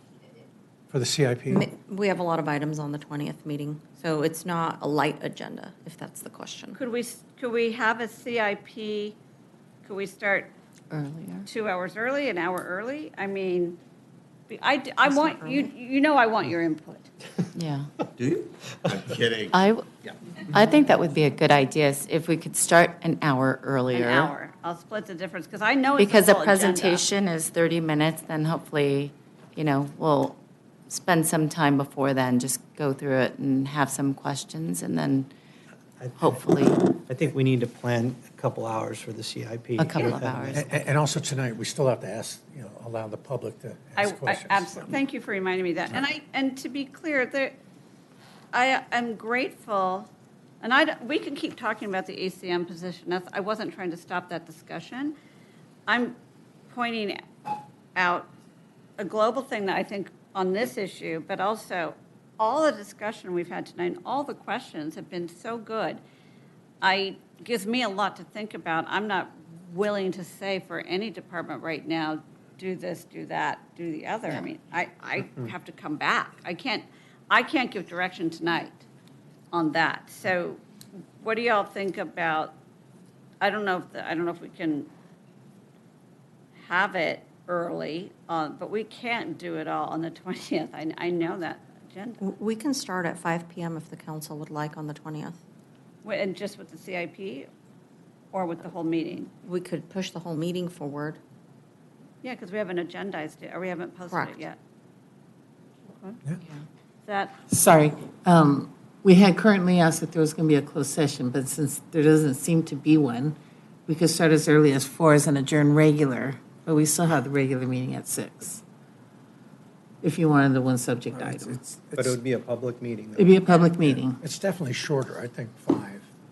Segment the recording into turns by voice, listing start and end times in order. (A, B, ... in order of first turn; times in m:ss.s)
0:00.9-0:01.7 A
0:01.5-0:06.8 B
0:06.7-0:09.2 C
0:09.8-0:10.5 C
0:10.9-0:11.5 D
0:11.5-0:13.8 C
0:14.5-0:17.1 C
0:15.0-0:15.7 B
0:17.5-0:17.9 D
0:19.5-0:19.8 D
0:20.5-0:24.3 D
0:23.9-0:27.1 C
0:26.0-0:35.3 D
0:36.0-0:40.7 E
0:36.2-0:36.8 D
0:39.8-0:40.7 D
0:40.0-0:45.0 A
0:44.0-0:47.6 C
0:48.5-0:50.1 C
0:50.6-0:55.1 C
0:55.9-0:56.2 C
0:56.7-0:57.2 C
0:57.9-0:58.3 C
0:59.0-1:06.0 C
1:06.8-1:18.8 C
1:19.5-1:20.6 C
1:21.2-1:22.5 C
1:23.4-1:24.9 C
1:26.6-1:32.2 C
1:32.2-1:35.4 B
1:36.0-1:37.5 C
1:38.3-1:39.3 C
1:39.4-1:41.2 B
1:42.2-1:44.6 C
1:45.9-1:46.2 C
1:47.0-1:47.3 C
1:47.5-1:58.6 F
2:00.0-2:01.6 F
2:01.1-2:02.2 A
2:02.0-2:03.4 E
2:03.2-2:04.2 F
2:03.7-2:06.1 A